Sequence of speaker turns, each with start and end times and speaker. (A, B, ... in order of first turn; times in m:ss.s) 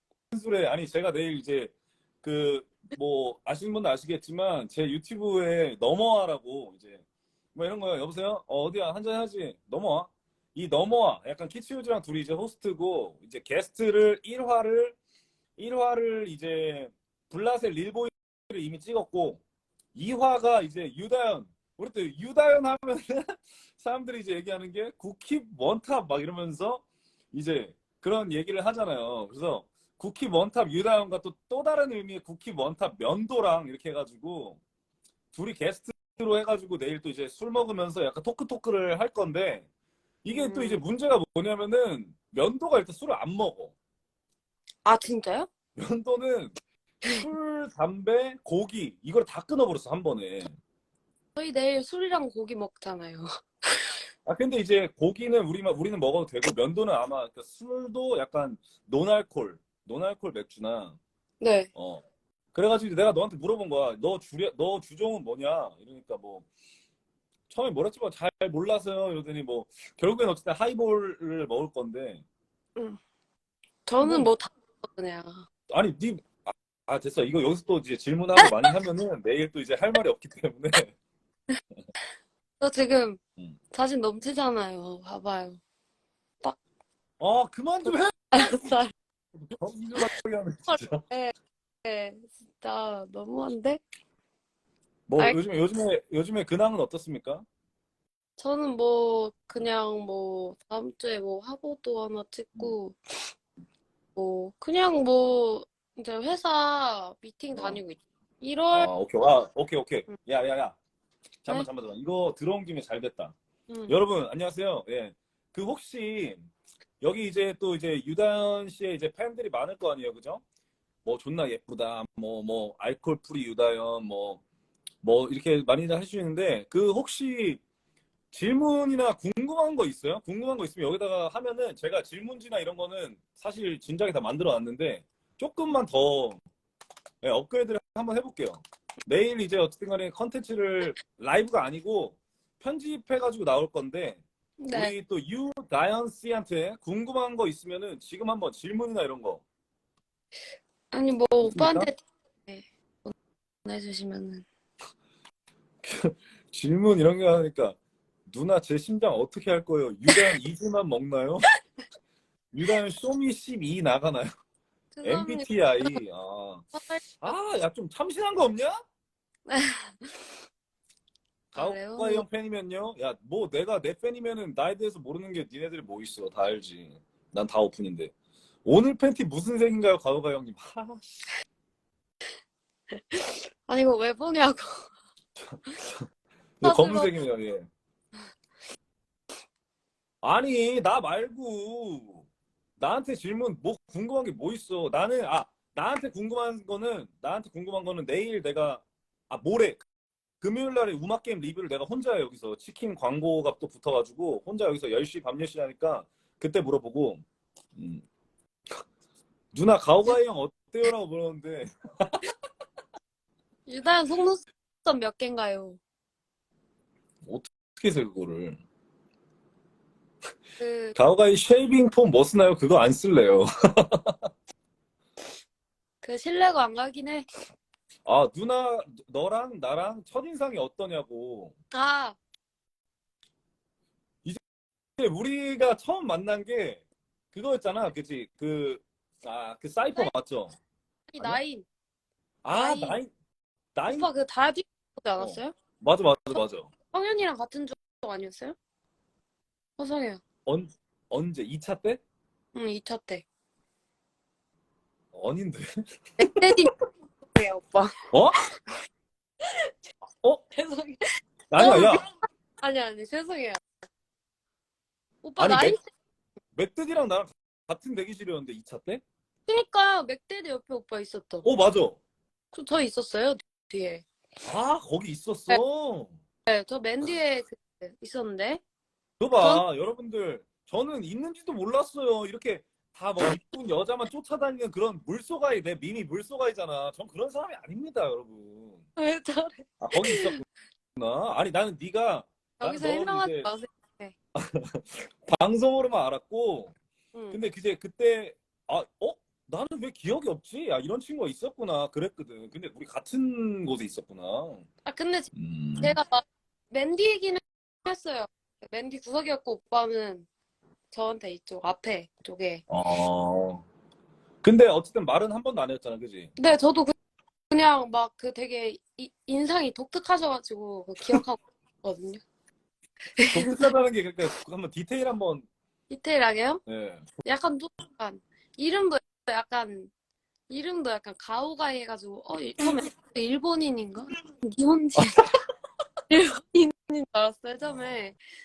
0:00.3-0:01.7 A
0:02.2-0:07.0 A
0:07.5-0:15.0 A
0:15.6-0:19.4 A
0:19.9-0:34.6 A
0:35.3-0:39.7 A
0:40.2-0:43.7 A
0:40.3-0:40.8 B
0:44.8-0:45.5 B
0:45.8-0:46.6 A
0:47.1-0:50.5 A
0:51.3-0:54.0 B
0:54.2-1:01.0 A
1:01.4-1:01.7 B
1:01.7-1:06.4 A
1:07.5-1:12.2 A
1:13.8-1:15.4 B
1:14.0-1:14.3 A
1:15.7-1:20.9 A
1:22.6-1:23.2 B
1:23.7-1:25.6 B
1:27.2-1:28.6 A
1:28.3-1:28.9 B
1:29.4-1:31.0 A
1:30.7-1:33.8 B
1:35.1-1:37.4 A
1:38.4-1:43.0 B
1:44.2-1:48.9 B
1:47.5-1:47.8 A
1:48.7-1:50.8 A
1:51.4-1:53.3 A
1:53.7-1:54.0 B
1:53.9-1:56.5 A
1:57.0-2:00.4 A
2:01.0-2:04.4 A
2:05.0-2:07.6 A
2:08.3-2:16.4 A
2:17.2-2:29.4 A
2:24.6-2:24.9 B
2:30.9-2:33.1 B
2:31.4-2:31.9 A
2:33.6-2:34.4 B
2:35.8-2:37.8 A
2:38.3-2:41.5 A
2:42.5-2:44.3 A
2:44.9-2:46.0 B
2:45.0-2:48.8 A
2:46.8-2:47.0 B
2:49.5-2:50.4 B
2:51.5-2:58.1 A
2:51.6-2:52.2 B
2:58.6-3:01.3 A
3:02.9-3:04.9 B
3:05.4-3:06.0 A
3:06.6-3:07.7 A
3:06.6-3:07.1 B
3:10.2-3:12.2 A
3:12.8-3:19.8 A
3:20.4-3:27.2 A
3:27.8-3:28.0 A
3:29.5-3:32.2 A
3:33.7-3:35.8 B
3:37.2-3:38.6 A
3:40.6-3:40.9 B
3:41.0-3:44.2 A
3:46.0-3:47.2 B
3:48.0-3:51.5 A
3:51.7-3:52.2 B
3:55.0-4:00.5 A
4:01.1-4:01.6 B
4:02.4-4:03.1 A
4:02.5-4:03.0 B
4:03.7-4:04.1 A
4:03.9-4:05.5 B
4:05.2-4:06.7 A
4:06.9-4:08.6 B
4:09.8-4:10.2 B
4:10.4-4:12.0 A
4:12.5-4:13.2 B
4:15.1-4:16.5 A
4:16.2-4:16.7 B
4:17.3-4:18.0 B
4:18.1-4:18.4 A
4:20.5-4:22.0 B
4:21.5-4:22.0 A
4:22.6-4:23.6 B
4:25.2-4:25.9 B
4:25.4-4:25.8 A
4:26.5-4:29.0 A
4:29.5-4:31.4 B
4:31.4-4:32.0 A
4:32.5-4:34.0 B
4:34.5-4:36.1 A
4:36.5-4:38.6 B
4:39.2-4:48.9 A
4:49.0-4:50.4 B
4:49.8-4:50.4 A
4:51.0-4:53.5 A
4:52.6-4:54.1 B
4:54.3-4:56.7 A
4:57.3-5:04.6 A
5:04.8-5:10.3 B
5:05.4-5:06.0 A
5:10.9-5:12.6 B
5:12.7-5:13.6 A
5:14.4-5:16.3 A
5:16.4-5:16.9 B
5:17.5-5:22.2 B
5:23.2-5:23.5 B
5:23.3-5:25.4 A
5:25.9-5:26.6 B
5:26.7-5:27.0 A
5:27.2-5:29.9 B
5:30.5-5:35.3 B
5:36.1-5:38.2 B
5:37.6-5:38.0 A